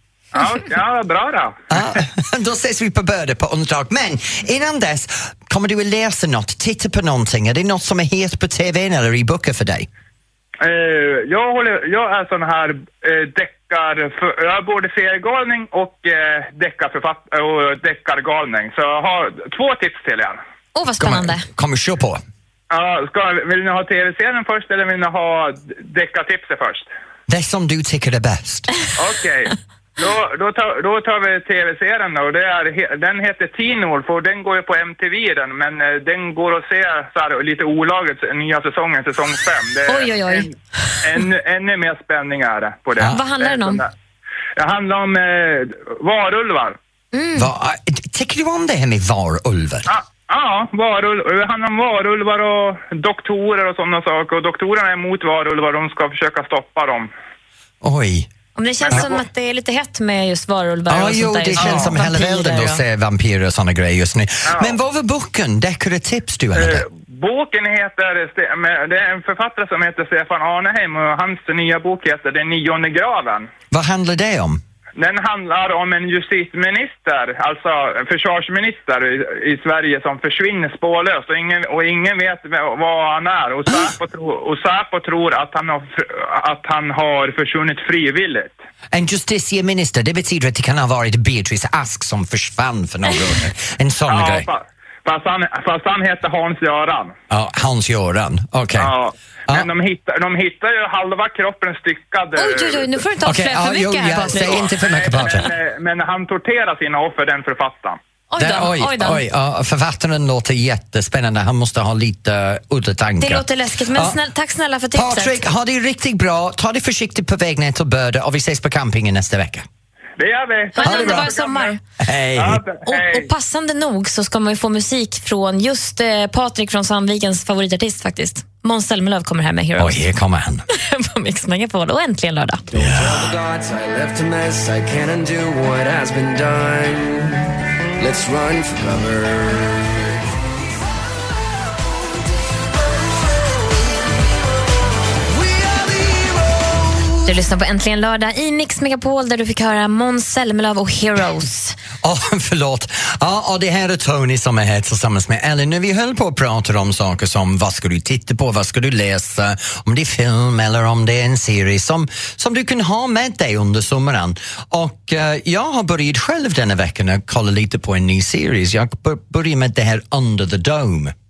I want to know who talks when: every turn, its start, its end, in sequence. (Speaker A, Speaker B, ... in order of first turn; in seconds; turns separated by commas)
Speaker A: 0.3-1.9, Speaker B: 1.7-9.9, Speaker A: 10.6-20.4, Speaker C: 20.8-21.5, Speaker B: 21.0-22.2, Speaker A: 22.7-26.9, Speaker B: 27.3-28.7, Speaker A: 29.0-43.9, Speaker C: 39.9-40.5, Speaker C: 43.0-43.8, Speaker A: 44.6-46.8, Speaker C: 47.1-47.5, Speaker B: 47.4-49.9, Speaker A: 49.9-57.1, Speaker B: 57.8-58.3, Speaker C: 58.6-62.8, Speaker A: 58.9-59.2, Speaker B: 60.9-66.8, Speaker A: 61.6-61.9, Speaker A: 66.6-73.5, Speaker B: 73.7-74.6, Speaker A: 75.0-88.5, Speaker B: 88.9-94.5, Speaker A: 94.1-97.2, Speaker B: 97.3-98.9, Speaker A: 98.8-103.0, Speaker C: 102.4-104.7, Speaker B: 103.2-105.5, Speaker A: 104.5-108.0, Speaker C: 108.3-109.2, Speaker B: 108.4-114.2, Speaker C: 113.2-115.4, Speaker B: 114.9-119.7, Speaker A: 120.2-121.8, Speaker C: 120.8-121.8, Speaker B: 120.8-121.3, Speaker B: 122.0-122.6, Speaker A: 122.3-123.3, Speaker C: 122.8-130.1, Speaker B: 129.8-130.6, Speaker C: 130.7-132.6, Speaker D: 132.7-140.2, Speaker B: 132.8-133.3, Speaker D: 142.9-144.2, Speaker D: 145.2-147.1, Speaker C: 147.3-151.8, Speaker B: 152.0-171.1